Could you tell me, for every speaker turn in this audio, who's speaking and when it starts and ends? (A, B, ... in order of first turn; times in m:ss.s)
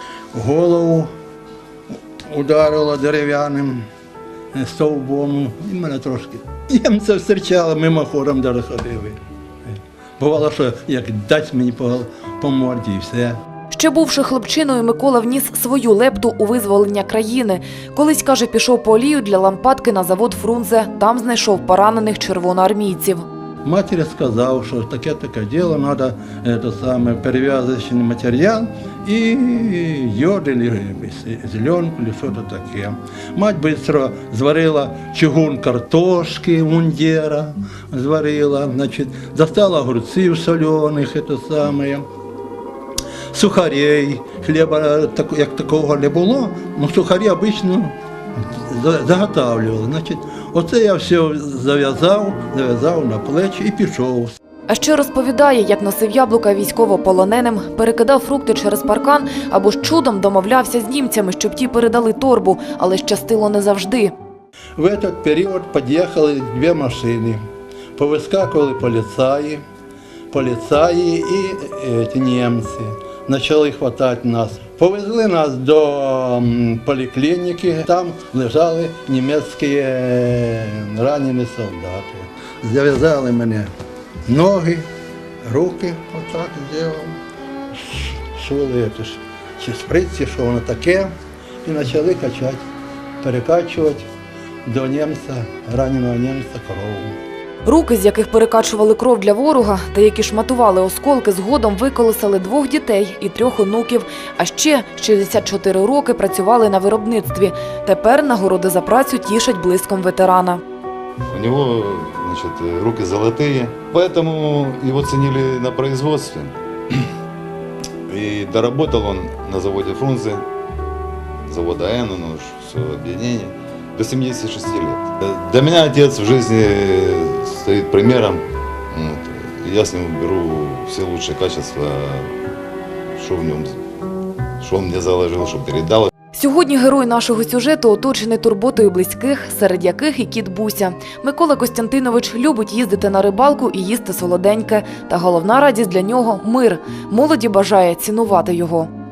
0:00.3-0:01.1 A
0:01.9-0:03.8 A
0:04.5-0:13.4 A
0:13.7-0:23.2 B
0:23.6-0:42.0 A
0:43.3-0:47.9 A
0:48.5-0:54.4 A
0:54.7-1:04.1 B
1:04.8-1:07.4 A
1:08.0-1:09.6 A
1:10.3-1:23.7 A
1:24.2-1:24.9 A
1:25.4-1:27.2 A
1:27.7-1:31.1 A
1:31.6-1:32.6 A
1:33.2-1:34.1 A
1:34.6-1:37.2 A
1:37.6-1:50.6 B
1:51.3-1:57.0 C
1:58.1-2:00.4 C
2:01.4-2:12.3 C
2:13.2-2:13.7 C
2:14.6-2:16.1 C
2:16.3-2:28.9 B